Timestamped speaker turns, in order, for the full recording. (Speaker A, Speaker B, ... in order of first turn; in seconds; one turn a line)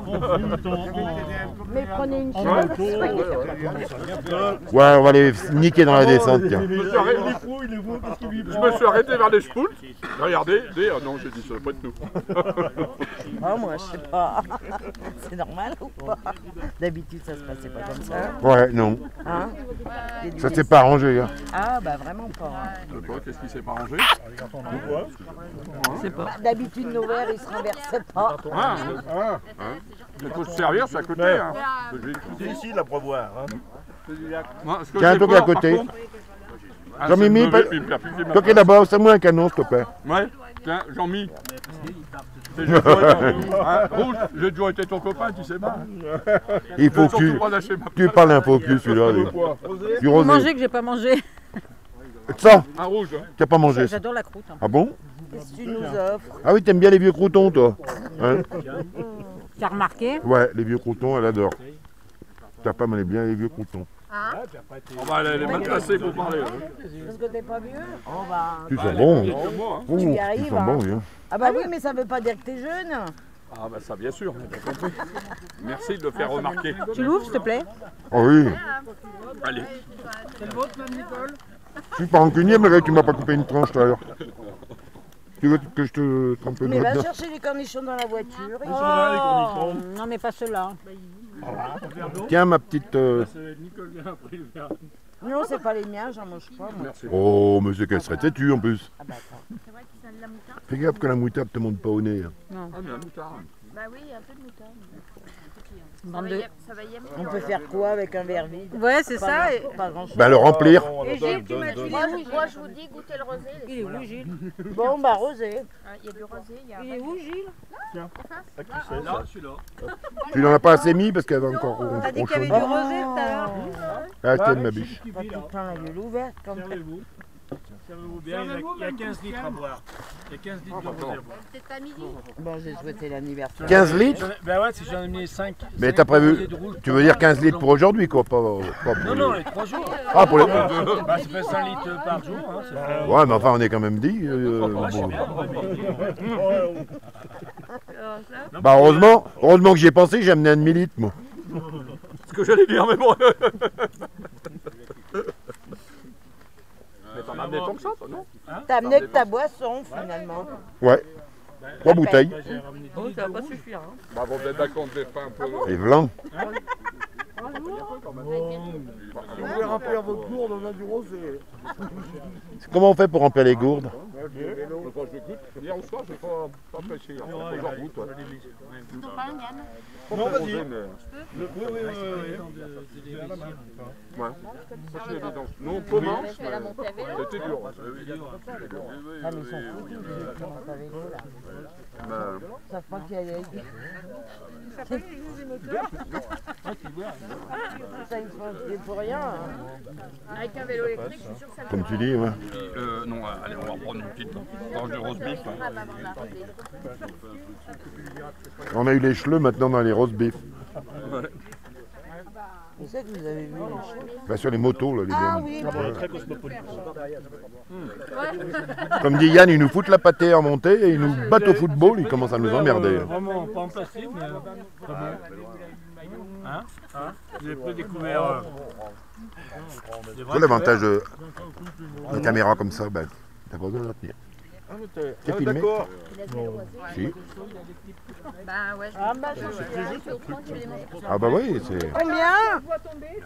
Speaker A: 0.1-0.6
Speaker B: 0.7-1.6
Speaker C: 1.7-3.5
Speaker A: 2.4-3.6
Speaker B: 2.5-3.9
Speaker D: 4.3-4.6
Speaker E: 4.7-6.7
Speaker D: 6.0-8.5
Speaker A: 6.6-7.4
Speaker A: 8.4-12.9
Speaker C: 13.3-18.5
Speaker E: 18.4-19.0
Speaker C: 19.2-19.6
Speaker C: 20.1-20.8
Speaker E: 20.4-21.3
Speaker C: 21.5-22.8
Speaker A: 22.9-24.1
Speaker D: 24.7-25.1
Speaker A: 25.8-26.1
Speaker C: 26.2-28.8
Speaker A: 28.5-29.1
Speaker D: 29.2-29.4
Speaker A: 30.2-32.4
Speaker D: 31.1-31.5
Speaker D: 32.2-33.5
Speaker A: 34.6-35.9
Speaker E: 35.0-35.9
Speaker A: 37.0-38.8
Speaker E: 37.0-39.9
Speaker A: 40.0-41.3
Speaker A: 42.5-45.9
Speaker E: 42.7-43.5
Speaker E: 46.8-49.4
Speaker A: 46.9-49.6
Speaker D: 49.6-50.1
Speaker E: 50.0-50.5
Speaker F: 50.1-51.2
Speaker E: 52.3-52.7
Speaker A: 52.8-53.3
Speaker E: 53.4-54.0
Speaker F: 53.6-54.6
Speaker E: 54.6-55.0
Speaker C: 55.3-56.4
Speaker E: 56.4-58.5
Speaker C: 58.1-58.5
Speaker F: 59.6-60.2
Speaker E: 60.2-61.6
Speaker E: 62.6-63.9
Speaker A: 65.0-66.7
Speaker C: 65.3-66.1
Speaker G: 65.6-66.1
Speaker C: 67.0-69.0
Speaker E: 68.7-71.0
Speaker A: 68.8-69.9
Speaker C: 69.9-73.2
Speaker A: 73.5-75.0
Speaker A: 75.6-77.4
Speaker F: 76.2-77.7
Speaker E: 78.1-78.6
Speaker A: 79.4-79.8
Speaker H: 80.4-81.0
Speaker G: 80.6-81.1
Speaker E: 82.0-84.0
Speaker E: 85.4-87.1
Speaker C: 86.6-89.1
Speaker D: 88.7-89.8
Speaker F: 88.7-90.8
Speaker G: 91.6-92.2
Speaker E: 92.2-93.3
Speaker G: 93.4-94.8
Speaker C: 95.2-97.2
Speaker A: 96.8-97.2
Speaker E: 97.1-98.9
Speaker C: 97.9-98.3
Speaker C: 99.0-99.4
Speaker H: 100.0-100.6
Speaker E: 100.7-102.3
Speaker F: 102.5-102.8
Speaker A: 102.7-103.6
Speaker H: 103.7-105.0
Speaker F: 106.0-106.5
Speaker H: 106.2-107.6
Speaker C: 107.1-110.5
Speaker F: 108.7-109.7
Speaker E: 110.1-111.0
Speaker D: 110.3-112.2
Speaker F: 111.0-112.4
Speaker H: 111.2-113.8
Speaker F: 113.7-114.3
Speaker C: 114.7-115.7
Speaker H: 115.9-117.2
Speaker F: 116.8-117.5
Speaker D: 117.9-119.3
Speaker E: 120.3-122.6
Speaker F: 122.0-123.6
Speaker C: 122.1-124.0
Speaker E: 124.2-125.0
Speaker G: 124.3-124.8
Speaker C: 125.1-126.8
Speaker G: 128.2-129.8
Speaker G: 130.3-131.2
Speaker A: 130.7-131.2
Speaker C: 132.4-134.3
Speaker E: 133.6-134.3
Speaker G: 133.7-137.0
Speaker E: 135.8-139.5
Speaker G: 139.0-143.2
Speaker E: 140.1-141.1
Speaker A: 140.3-141.2
Speaker E: 143.0-145.4
Speaker G: 145.0-146.1
Speaker H: 147.9-148.6
Speaker E: 148.6-151.1
Speaker A: 152.3-154.0
Speaker A: 157.1-158.3
Speaker C: 158.7-160.5
Speaker A: 158.8-159.2
Speaker E: 161.8-162.4
Speaker C: 161.8-162.5
Speaker G: 162.5-163.4
Speaker H: 162.9-164.0
Speaker A: 164.1-165.8
Speaker E: 165.6-166.1
Speaker A: 167.4-170.4
Speaker B: 169.4-171.3
Speaker E: 172.6-173.9
Speaker A: 174.8-178.1
Speaker A: 178.9-179.2
Speaker D: 180.1-180.7
Speaker A: 180.1-181.0
Speaker D: 181.3-182.5
Speaker D: 183.2-183.6
Speaker A: 184.9-188.0
Speaker D: 185.9-186.3
Speaker H: 185.9-187.2
Speaker C: 189.2-191.3
Speaker A: 192.0-192.5
Speaker C: 192.7-193.7
Speaker A: 195.6-195.9
Speaker C: 197.9-199.6
Speaker H: 200.4-202.0
Speaker E: 201.7-202.4
Speaker A: 202.5-205.6
Speaker H: 205.3-206.5
Speaker E: 208.7-210.4
Speaker A: 211.0-211.3
Speaker C: 212.8-214.1
Speaker E: 214.3-216.0
Speaker C: 215.1-216.0
Speaker D: 215.9-216.6
Speaker E: 219.0-223.2
Speaker G: 221.6-224.4
Speaker G: 227.4-228.5
Speaker G: 230.2-230.7
Speaker E: 230.2-231.1
Speaker E: 232.1-234.2
Speaker D: 234.7-235.9
Speaker E: 235.2-235.8
Speaker H: 236.3-236.7
Speaker E: 236.9-237.2
Speaker H: 238.5-238.9
Speaker C: 238.9-240.1
Speaker H: 240.0-241.2
Speaker E: 241.1-242.0
Speaker C: 241.9-242.7